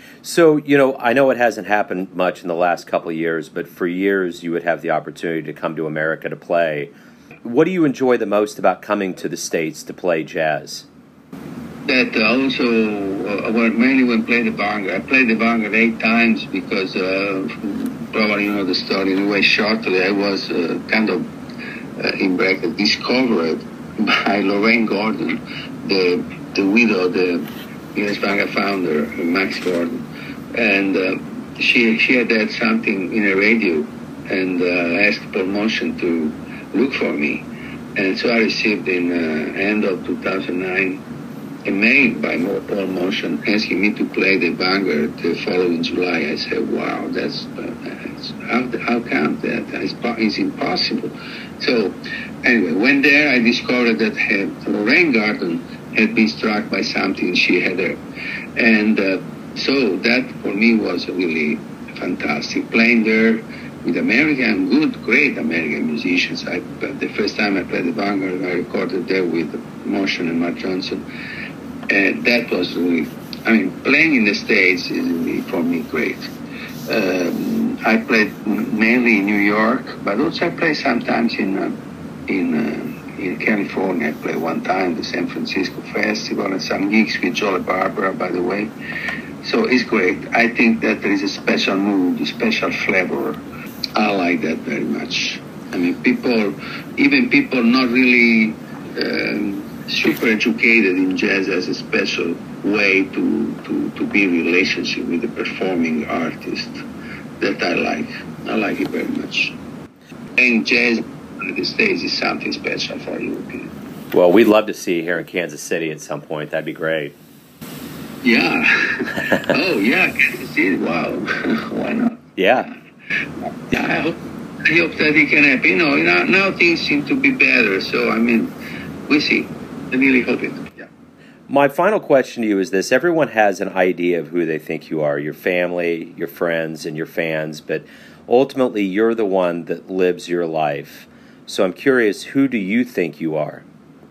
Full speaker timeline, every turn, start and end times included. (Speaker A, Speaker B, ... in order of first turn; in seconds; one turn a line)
Speaker A: 0.2-6.9
Speaker A: 7.4-10.8
Speaker B: 11.8-21.3
Speaker B: 22.0-30.0
Speaker B: 30.5-41.0
Speaker B: 41.6-58.0
Speaker B: 58.6-71.0
Speaker B: 71.9-76.3
Speaker B: 76.9-81.8
Speaker B: 82.3-88.7
Speaker B: 89.4-93.4
Speaker B: 94.0-106.8
Speaker B: 107.4-109.6
Speaker B: 110.4-113.7
Speaker A: 114.1-117.1
Speaker B: 118.2-122.2
Speaker A: 122.4-122.7
Speaker B: 123.7-128.5
Speaker B: 129.1-130.9
Speaker A: 131.5-143.6